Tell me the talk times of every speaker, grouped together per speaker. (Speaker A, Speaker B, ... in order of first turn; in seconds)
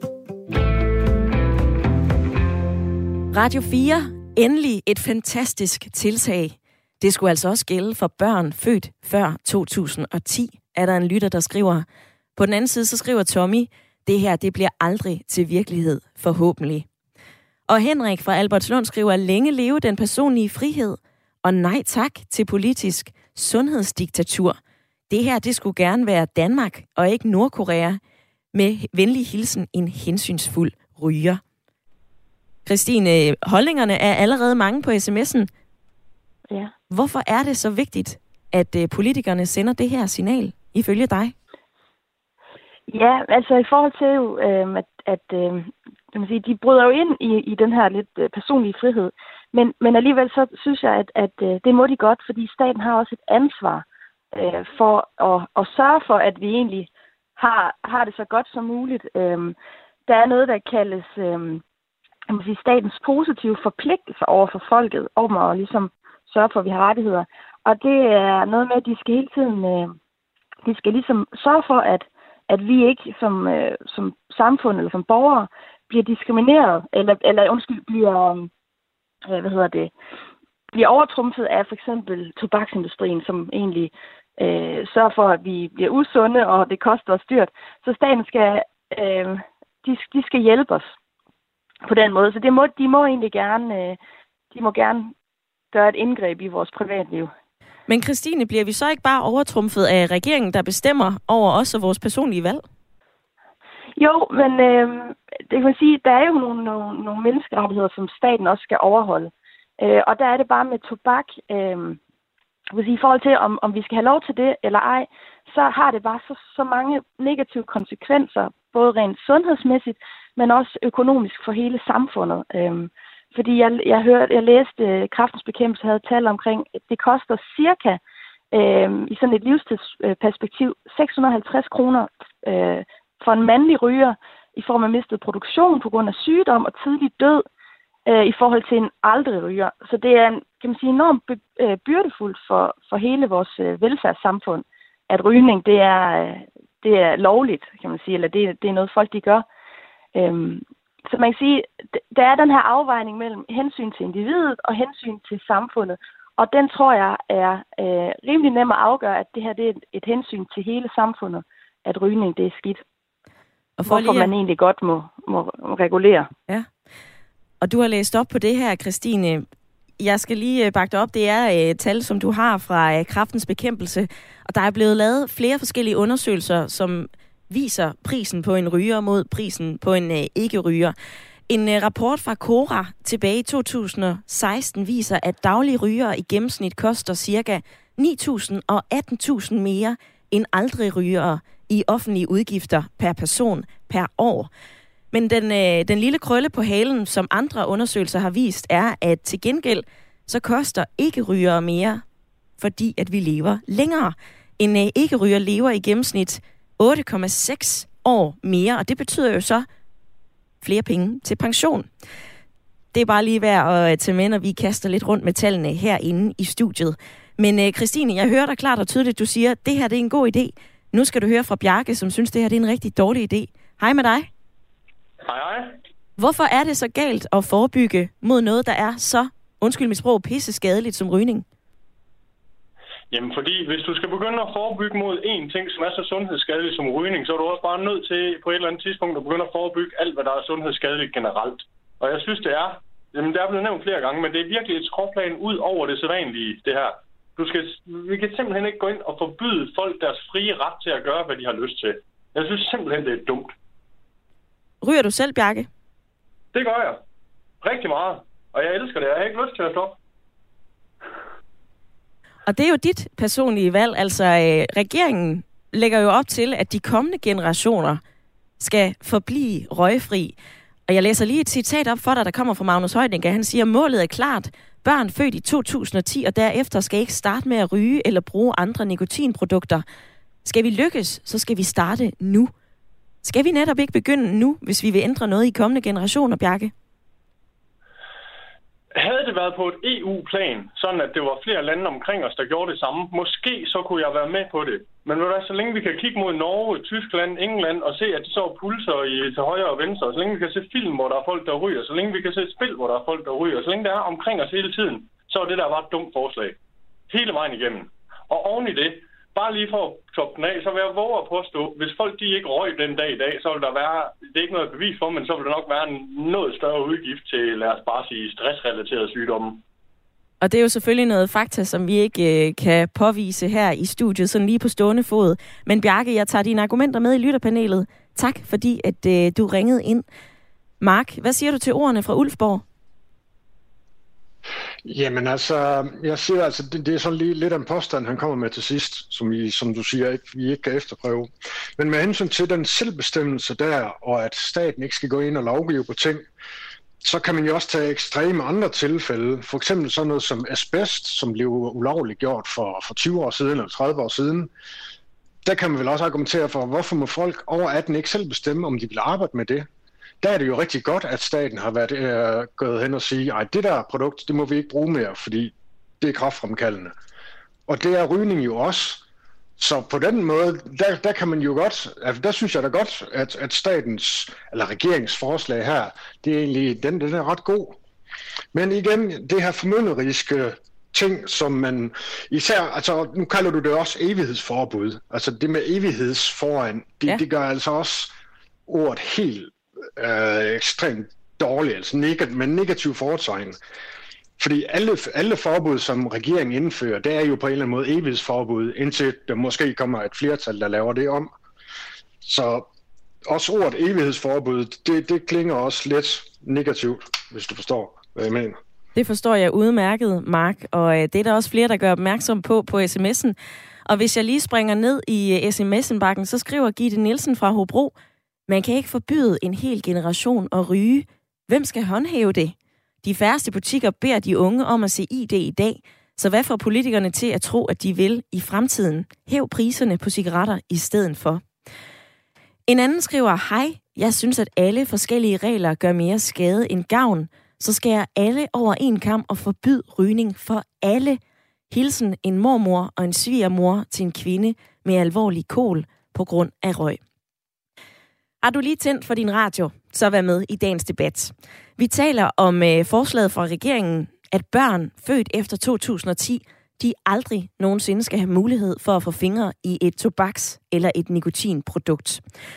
Speaker A: 3.3-16.9, 17.7-24.6, 25.1-28.0, 28.5-31.4, 32.6-35.5, 36.9-41.3, 97.9-102.6, 163.8-164.3, 167.6-169.4, 170.0-180.9, 181.5-194.5, 195.1-202.0, 202.6-209.7, 210.6-211.9, 212.9-224.3, 226.2-231.4, 254.8-255.7, 262.5-268.0, 268.6-270.3, 270.9-279.8, 280.4-282.5, 283.2-286.7, 320.4-330.0, 330.8-332.6, 408.9-417.9, 418.5-431.4, 432.7-441.2, 441.7-447.0, 448.4-462.2
Speaker B: 42.9-59.5, 60.1-61.6, 62.3-69.9, 70.6-78.5, 79.2-79.9, 80.7-90.9, 91.8-94.0, 94.5-95.1, 95.7-97.3, 104.0-112.0, 112.7-128.0, 128.5-137.4, 138.1-149.4, 150.1-162.8, 163.9-166.3
Speaker C: 225.2-225.8, 233.1-253.5, 256.5-257.0, 257.6-259.9, 288.9-306.6, 307.1-319.6
Speaker D: 334.8-346.2, 347.0-354.5, 355.4-359.7, 360.2-366.9, 367.7-369.0, 369.6-377.8, 378.5-388.1, 388.7-393.6, 394.4-401.3, 402.2-402.6, 403.3-408.6